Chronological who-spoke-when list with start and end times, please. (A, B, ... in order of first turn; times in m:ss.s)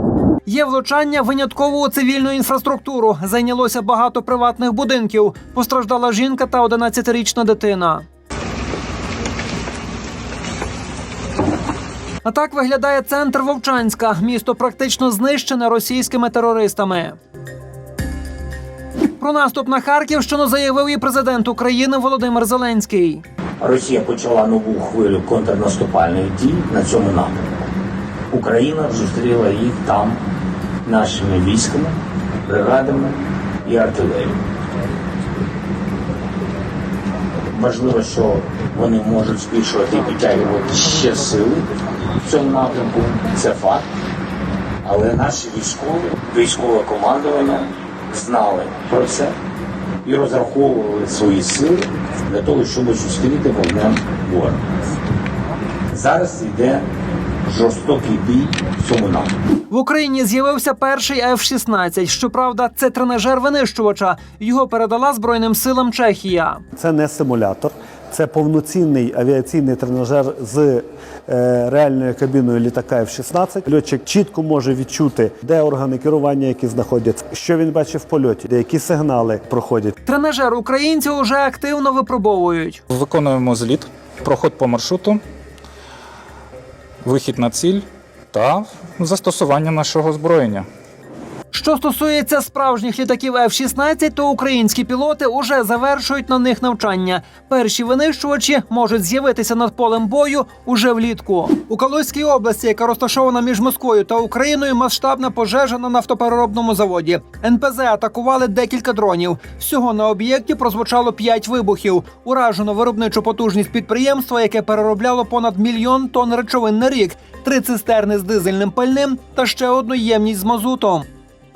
0:00.5-0:08.0 A
0:12.2-0:17.2 A
0:19.2-0:23.2 A
0:23.6-0:27.5 B
0:28.3-0:30.2 B
0:30.8-0:34.4 B
0:37.5-0:41.6 B
0:42.2-0:43.8 B
0:44.8-0:49.4 B
0:50.0-0:54.6 B
0:55.9-0:56.8 B
0:57.5-0:59.3 B
0:59.7-1:06.6 A
1:06.8-1:20.0 C
1:20.1-1:22.8 A
1:22.9-1:25.2 D
1:27.0-1:30.7 D
1:31.5-2:01.1 A